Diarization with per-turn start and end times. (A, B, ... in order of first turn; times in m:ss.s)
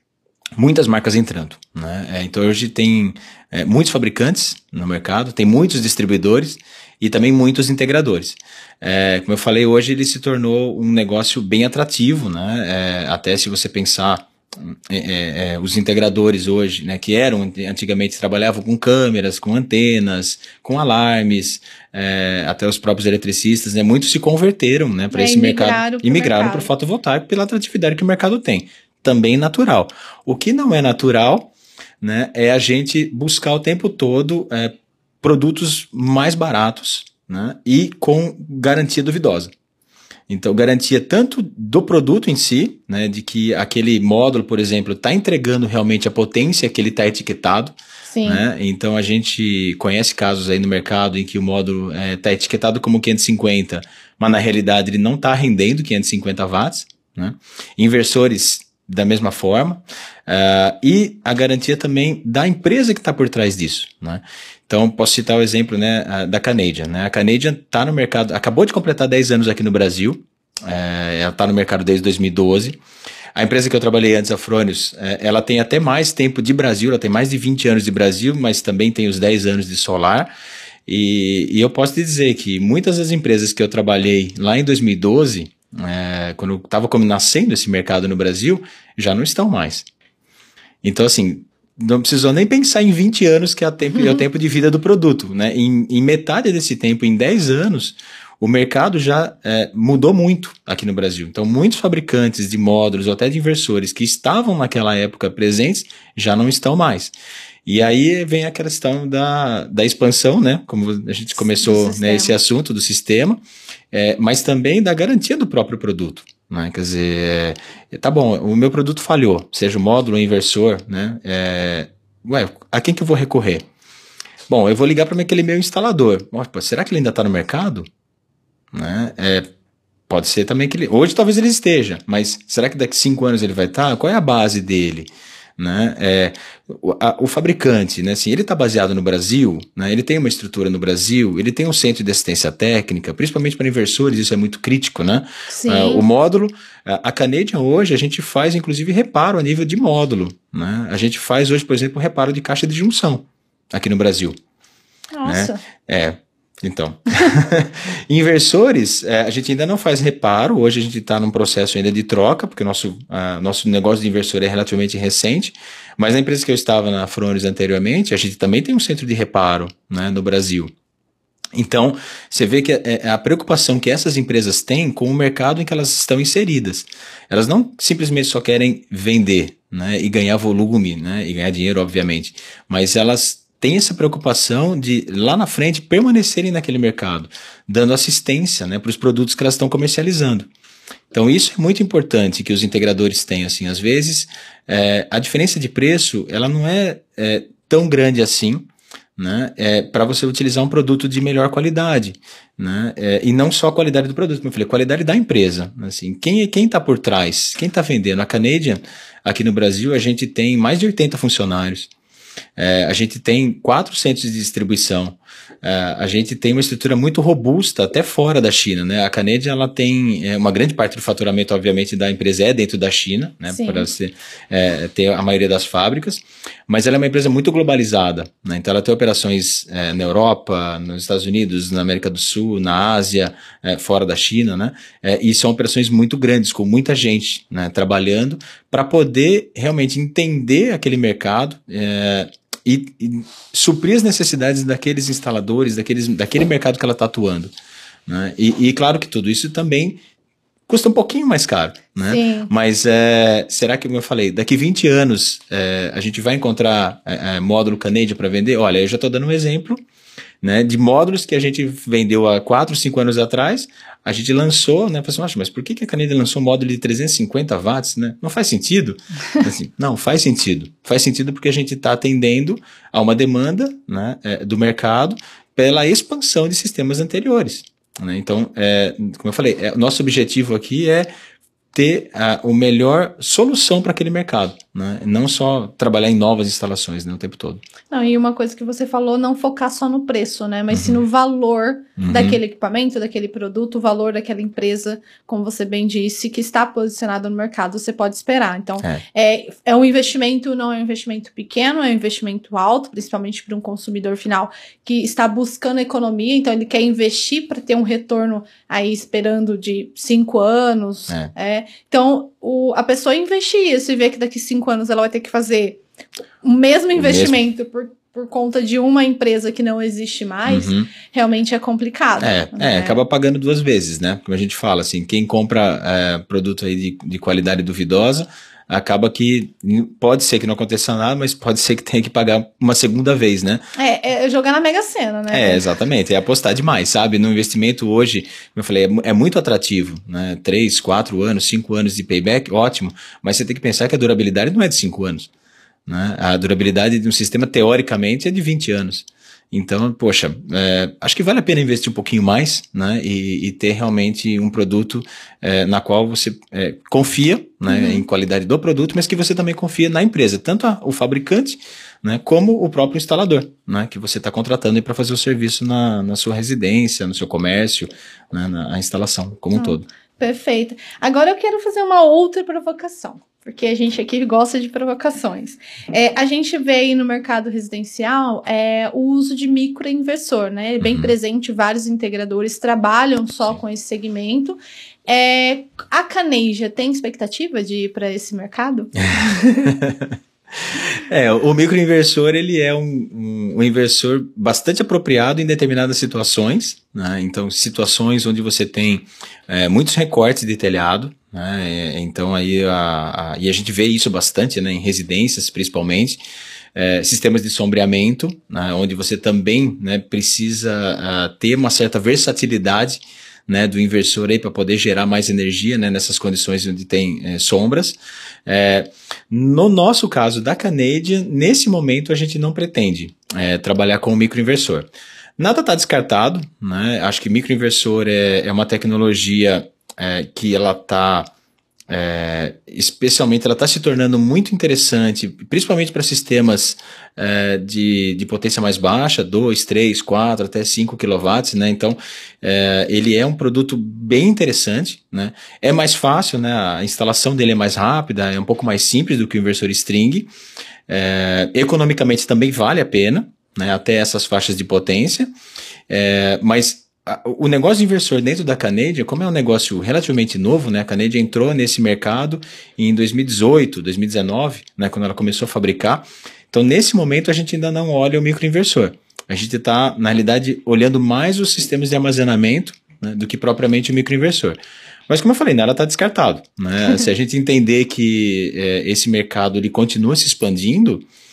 0:00.6-0:31.5 A
0:25.1-0:26.7 B
0:32.0-0:39.5 A
0:40.3-1:12.8 A
0:48.1-0:48.4 B
1:13.3-1:20.3 A
1:20.9-1:29.8 A
1:30.8-1:47.1 A
1:47.6-2:03.6 A
1:51.4-1:52.4 B
2:04.5-2:07.9 A
2:08.7-2:09.5 A
2:10.1-2:34.4 A
2:25.5-2:26.0 B
2:35.1-2:35.6 B
2:35.2-2:50.7 A
2:51.5-3:10.5 A
3:11.1-3:18.6 A
3:19.2-3:31.9 A
3:32.6-4:07.5 A
3:43.5-3:43.9 B
4:08.1-4:10.0 A
4:10.7-4:19.8 A
4:12.0-4:12.5 B
4:20.4-4:41.1 A
4:41.7-4:47.6 A
4:47.9-5:15.8 B
4:50.7-4:51.0 A
4:52.0-4:52.4 A
5:16.4-5:23.0 B
5:16.9-5:17.4 A
5:20.5-5:20.9 A
5:22.2-5:33.6 A
5:33.8-5:35.6 B
5:35.3-5:45.3 A
5:45.8-6:09.9 A
5:57.7-5:58.0 B
6:09.5-6:29.7 B
6:20.8-6:21.1 A
6:29.0-6:30.2 A
6:30.7-6:46.2 A
6:46.7-7:11.3 A
7:11.9-7:30.3 A
7:30.9-7:35.3 A
7:35.9-7:54.6 A
7:55.1-8:01.0 A